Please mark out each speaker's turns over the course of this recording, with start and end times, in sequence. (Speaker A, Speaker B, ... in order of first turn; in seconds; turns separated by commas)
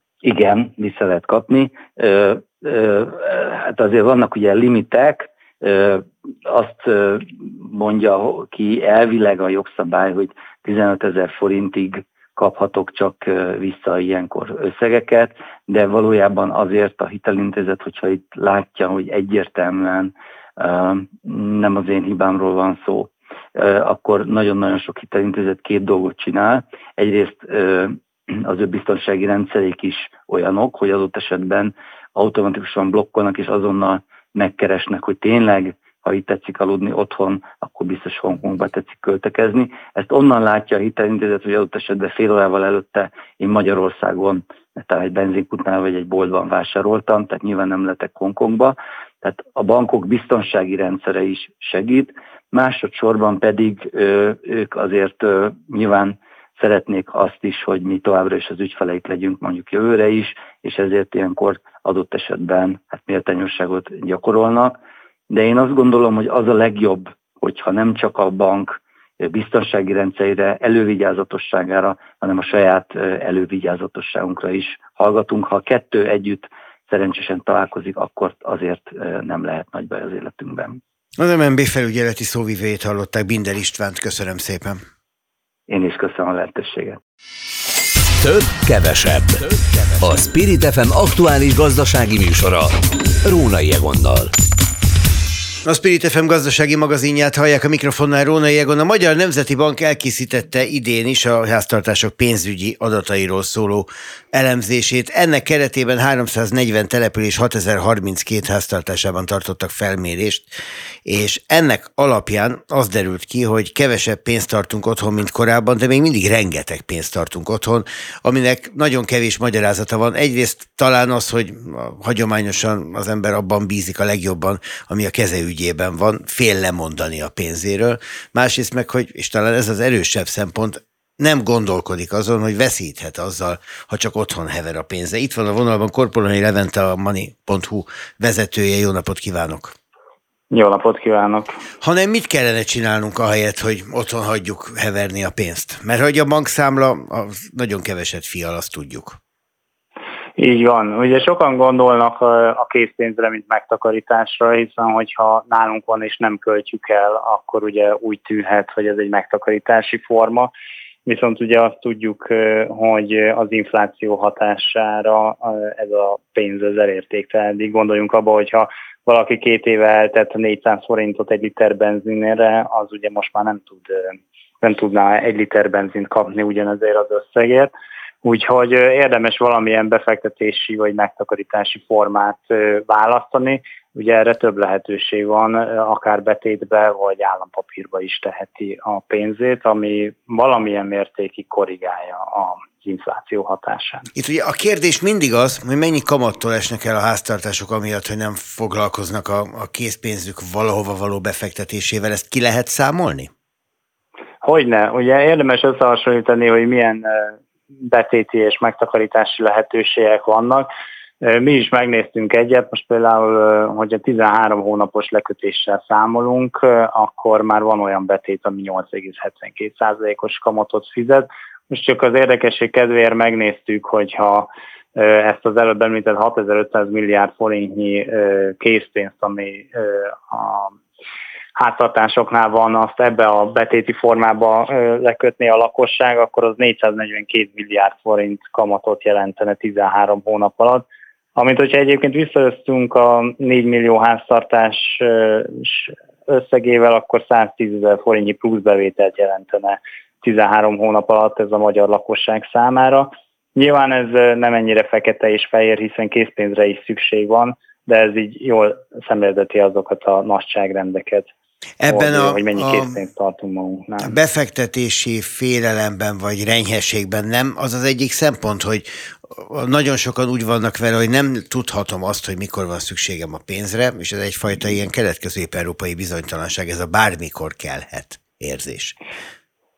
Speaker A: 0.2-64.8, Speaker A: 65.3-80.8, Speaker B: 81.2-84.8, Speaker A: 85.7-87.0, Speaker C: 88.2-94.3, Speaker B: 95.7-110.5, Speaker B: 111.0-139.7, Speaker D: 140.5-141.5, Speaker B: 141.8-149.2, Speaker D: 150.4-160.5, Speaker D: 161.1-177.7, Speaker D: 178.2-194.1, Speaker B: 194.2-203.3, Speaker D: 204.4-210.7, Speaker D: 211.2-230.8, Speaker D: 231.6-261.3, Speaker B: 261.8-263.0, Speaker D: 261.9-264.1, Speaker B: 264.0-278.9